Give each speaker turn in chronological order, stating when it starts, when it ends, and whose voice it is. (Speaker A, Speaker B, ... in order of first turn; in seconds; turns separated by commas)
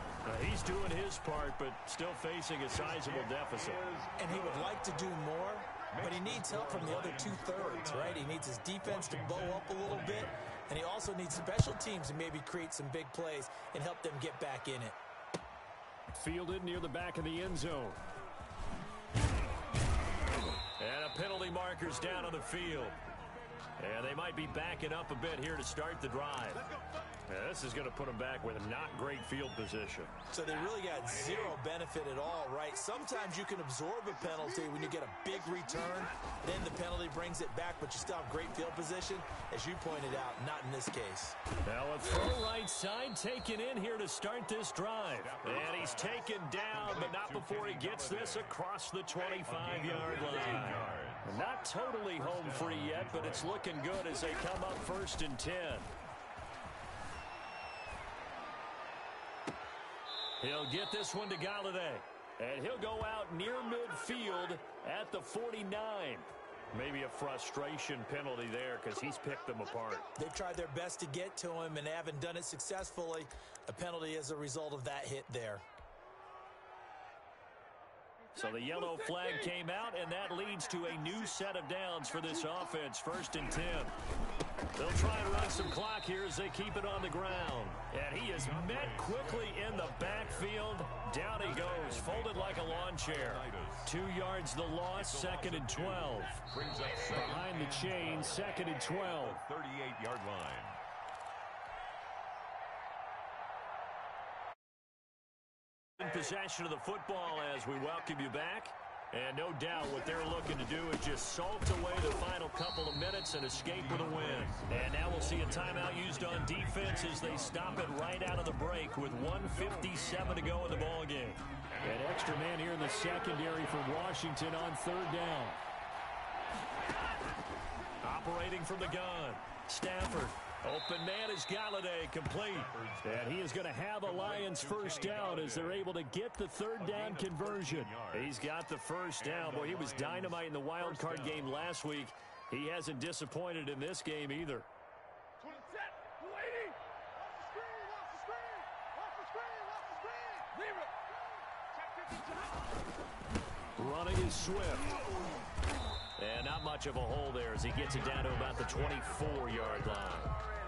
Speaker A: 0.2-3.8, Speaker B: 2.6-4.9, Speaker C: 4.2-14.9, Speaker B: 5.9-10.4, Speaker A: 16.1-18.0, Speaker A: 20.8-23.0, Speaker A: 23.8-26.7, Speaker A: 27.3-30.1, Speaker C: 30.3-41.4, Speaker A: 41.6-55.9, Speaker B: 45.2-48.5, Speaker B: 49.4-51.5, Speaker B: 52.2-53.7, Speaker A: 60.4-70.1, Speaker C: 70.2-75.6, Speaker A: 78.3-83.9, Speaker A: 84.8-96.4, Speaker B: 88.3-90.6, Speaker B: 91.3-93.9, Speaker B: 94.9-100.8, Speaker A: 97.1-99.4, Speaker A: 106.0-125.6, Speaker B: 113.7-118.5, Speaker B: 119.5-121.0, Speaker B: 121.7-124.1, Speaker A: 128.0-144.7, Speaker B: 132.3-135.9, Speaker B: 136.8-138.3, Speaker B: 139.2-141.5, Speaker A: 153.8-155.0, Speaker A: 156.2-160.3, Speaker B: 157.8-160.1